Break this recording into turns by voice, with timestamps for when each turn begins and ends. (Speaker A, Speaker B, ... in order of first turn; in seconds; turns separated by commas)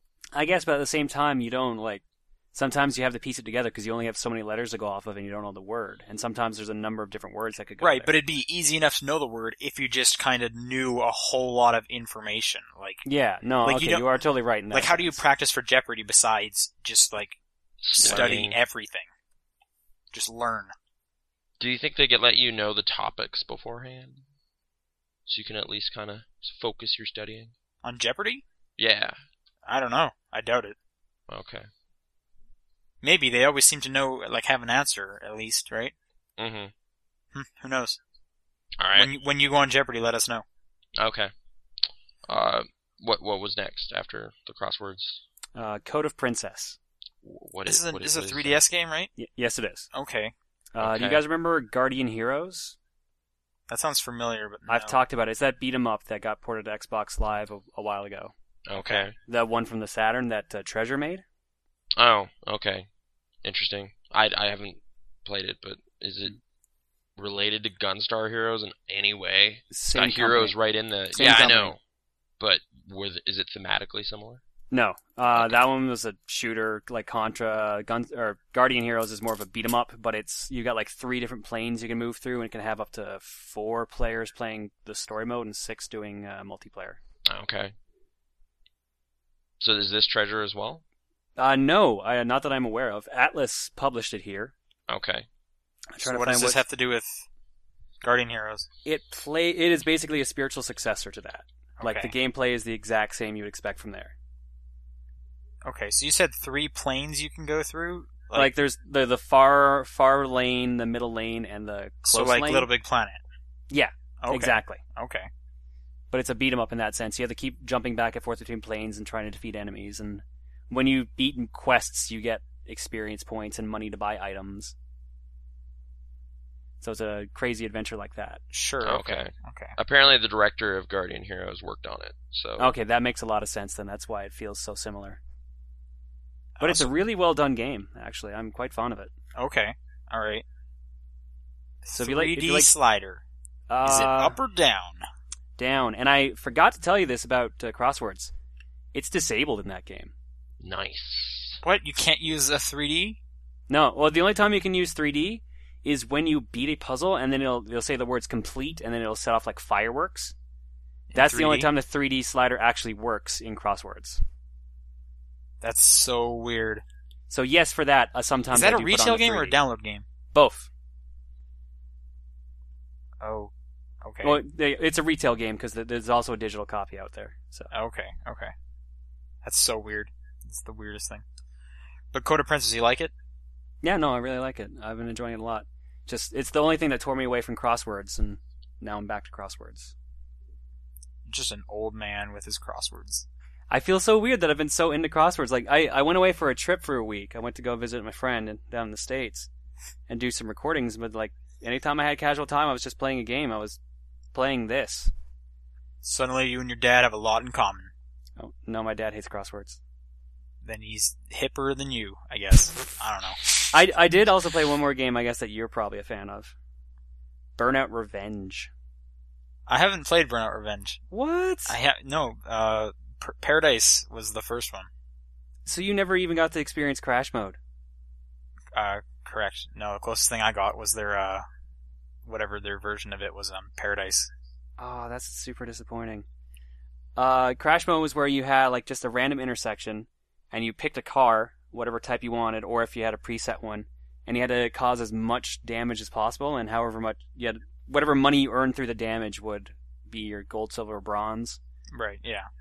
Speaker A: 0.3-8.2, Speaker B: 7.8-13.0, Speaker A: 13.1-15.2, Speaker B: 13.6-14.2, Speaker B: 14.7-17.4, Speaker C: 17.8-18.6, Speaker B: 18.0-19.1, Speaker A: 18.0-18.4, Speaker B: 20.1-20.7, Speaker C: 21.6-24.2, Speaker C: 25.3-27.6, Speaker B: 27.8-28.4, Speaker C: 28.8-29.2, Speaker B: 29.7-30.8, Speaker C: 31.3-31.7, Speaker B: 33.0-36.0, Speaker C: 36.4-36.7, Speaker B: 37.3-38.0, Speaker C: 38.8-39.1, Speaker B: 38.9-40.4, Speaker C: 41.0-41.3, Speaker C: 42.3-45.2, Speaker A: 45.5-46.8, Speaker C: 47.2-48.6, Speaker B: 47.7-49.1, Speaker A: 49.2-49.9, Speaker B: 49.9-50.3, Speaker A: 50.7-52.8, Speaker C: 50.8-51.2, Speaker B: 53.7-55.0, Speaker A: 54.7-58.3, Speaker C: 58.7-59.1, Speaker B: 58.7-59.1, Speaker A: 59.3-61.2, Speaker C: 62.0-62.9, Speaker C: 63.4-66.3, Speaker C: 67.2-71.8, Speaker A: 69.7-70.6, Speaker A: 71.2-71.8, Speaker C: 72.4-74.4, Speaker A: 74.7-87.0, Speaker C: 75.3-75.6, Speaker C: 87.3-87.7, Speaker C: 89.6-90.8, Speaker A: 91.4-94.5, Speaker C: 94.9-95.3, Speaker A: 95.9-96.6, Speaker B: 96.0-97.2, Speaker B: 98.0-98.7, Speaker A: 98.8-104.1, Speaker B: 101.8-102.1, Speaker B: 105.6-108.5, Speaker A: 108.3-112.7, Speaker B: 112.0-113.2, Speaker A: 113.7-114.8, Speaker B: 114.2-115.3, Speaker A: 116.1-124.8, Speaker A: 126.8-128.4, Speaker B: 128.5-129.8, Speaker C: 128.8-132.7, Speaker A: 132.6-135.2, Speaker B: 136.6-136.9, Speaker A: 136.6-139.1, Speaker B: 139.4-140.4, Speaker B: 141.8-143.2, Speaker A: 141.9-142.7, Speaker A: 143.7-144.4, Speaker B: 143.8-145.1, Speaker A: 145.6-148.3, Speaker A: 148.9-150.1, Speaker C: 150.6-151.6, Speaker B: 151.6-153.2, Speaker A: 153.7-160.3, Speaker B: 161.1-161.7, Speaker A: 161.2-164.2, Speaker B: 165.6-166.8, Speaker A: 167.3-169.6, Speaker B: 168.5-170.1, Speaker A: 170.3-170.7, Speaker B: 173.2-174.4, Speaker A: 174.2-177.7, Speaker B: 177.7-178.5, Speaker B: 179.4-181.2, Speaker B: 182.1-183.1, Speaker A: 183.8-189.9, Speaker B: 191.3-193.3, Speaker A: 193.7-199.5, Speaker A: 200.1-203.8, Speaker A: 204.3-205.1, Speaker B: 206.0-207.9, Speaker A: 208.4-209.8, Speaker B: 210.6-213.7, Speaker A: 213.7-216.6, Speaker A: 217.6-218.7, Speaker B: 219.7-221.0, Speaker A: 221.1-221.8, Speaker B: 221.7-224.9, Speaker A: 225.7-227.6, Speaker B: 228.7-231.4, Speaker B: 232.2-234.3, Speaker A: 234.8-236.2, Speaker A: 237.2-251.6, Speaker B: 251.9-252.5